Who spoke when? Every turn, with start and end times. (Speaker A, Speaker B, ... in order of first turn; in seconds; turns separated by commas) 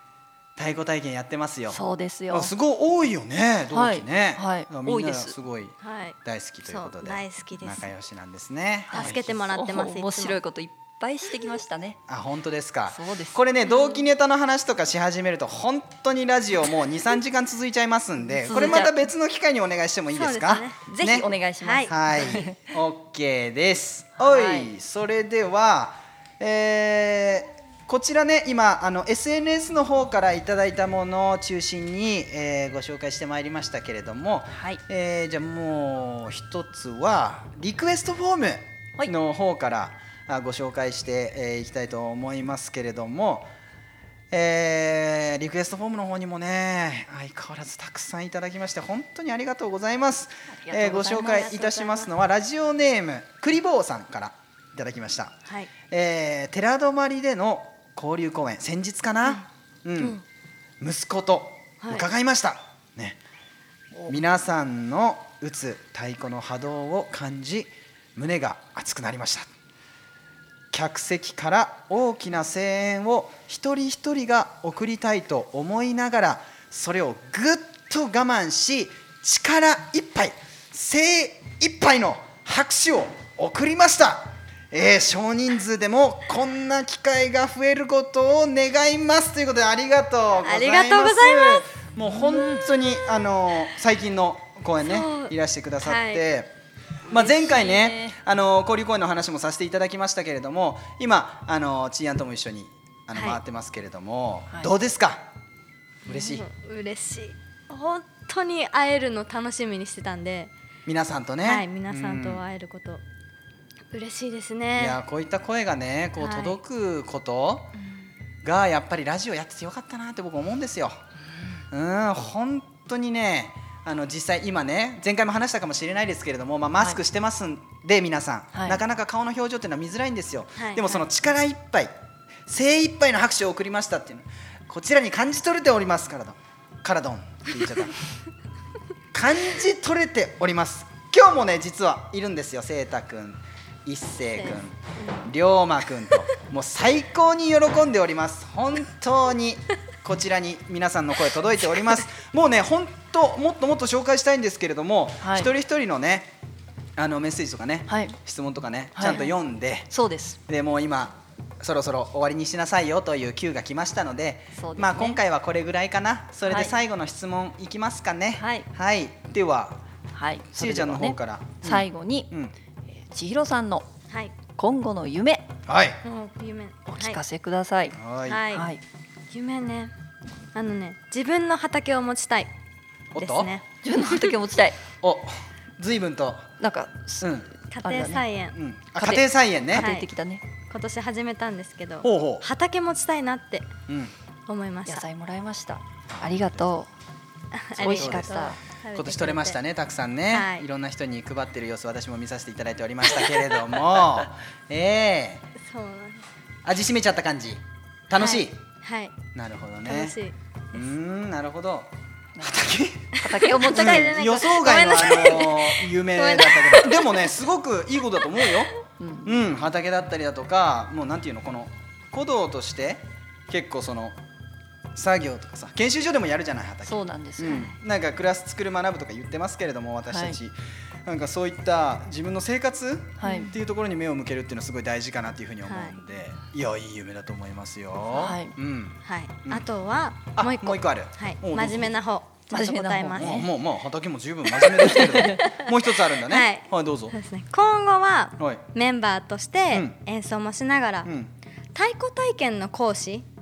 Speaker A: 0.6-9.3, Speaker B: 1.7-2.5, Speaker B: 3.7-5.4, Speaker C: 5.8-7.9, Speaker B: 8.9-12.0, Speaker C: 8.9-10.4, Speaker A: 12.1-21.3, Speaker B: 12.9-13.4, Speaker C: 13.7-14.0, Speaker B: 18.4-19.1, Speaker C: 20.1-20.8, Speaker B: 20.9-22.6, Speaker C: 21.6-21.9, Speaker A: 21.9-43.5, Speaker B: 24.2-24.7, Speaker B: 34.5-34.8, Speaker A: 44.3-55.4, Speaker B: 50.6-51.4, Speaker C: 50.9-52.1, Speaker C: 55.5-55.7, Speaker A: 55.9-60.2, Speaker A: 60.8-63.2, Speaker A: 64.1-69.5, Speaker A: 70.7-96.5, Speaker C: 90.4-91.7, Speaker C: 92.2-92.6, Speaker C: 94.8-96.2, Speaker A: 97.1-105.3, Speaker B: 97.1-98.2, Speaker C: 103.1-103.4, Speaker C: 106.1-110.5, Speaker A: 106.1-106.5, Speaker A: 110.9-112.4, Speaker C: 111.4-113.0, Speaker C: 113.9-115.0, Speaker A: 114.8-117.7, Speaker C: 116.2-116.6, Speaker A: 118.4-121.0, Speaker A: 121.7-131.9, Speaker B: 128.5-128.8, Speaker C: 130.6-131.0, Speaker A: 132.5-138.0, Speaker A: 139.1-156.3, Speaker C: 144.4-145.2, Speaker B: 155.2-155.5, Speaker A: 157.0-159.9, Speaker B: 157.9-158.2, Speaker B: 159.0-159.3, Speaker B: 159.9-160.4, Speaker A: 160.5-169.8, Speaker B: 164.6-165.2, Speaker B: 166.5-166.8, Speaker B: 168.4-168.7, Speaker B: 170.1-172.3, Speaker A: 170.5-172.5, Speaker B: 172.9-173.9, Speaker B: 174.6-175.5, Speaker A: 175.7-176.0, Speaker C: 176.0-177.2, Speaker B: 176.9-178.0, Speaker A: 178.0-178.4, Speaker C: 178.3-178.7, Speaker B: 178.5-178.8, Speaker C: 179.3-179.9, Speaker C: 180.5-182.5, Speaker A: 183.1-183.5, Speaker C: 183.2-184.1, Speaker B: 183.8-184.8, Speaker A: 185.0-186.5, Speaker B: 186.6-188.3, Speaker A: 187.2-187.5, Speaker C: 187.7-188.6, Speaker A: 188.6-189.9, Speaker B: 189.0-190.4, Speaker C: 189.8-190.1, Speaker C: 190.7-193.7, Speaker A: 192.0-192.5, Speaker A: 193.9-194.1, Speaker C: 194.5-195.1, Speaker B: 194.9-196.9, Speaker A: 196.1-196.7, Speaker C: 197.5-199.6, Speaker A: 197.8-205.4, Speaker B: 197.8-198.6, Speaker C: 200.3-200.7, Speaker C: 205.6-206.2, Speaker A: 206.6-208.6, Speaker C: 208.2-209.2, Speaker A: 209.3-210.2, Speaker C: 209.8-210.4, Speaker A: 210.7-218.7, Speaker B: 212.3-214.2, Speaker C: 213.3-217.1, Speaker B: 219.0-219.4, Speaker A: 219.2-224.2, Speaker A: 224.9-239.7, Speaker B: 226.8-227.6, Speaker C: 227.4-227.8, Speaker B: 230.1-230.4, Speaker B: 233.2-233.5, Speaker C: 235.7-236.0, Speaker B: 238.2-238.6, Speaker C: 239.1-243.4, Speaker A: 240.3-242.0, Speaker B: 242.5-243.5, Speaker A: 243.1-247.2, Speaker B: 244.7-245.4, Speaker C: 245.1-245.7, Speaker C: 246.2-251.1, Speaker A: 248.4-248.6, Speaker A: 251.1-251.3, Speaker C: 251.7-253.3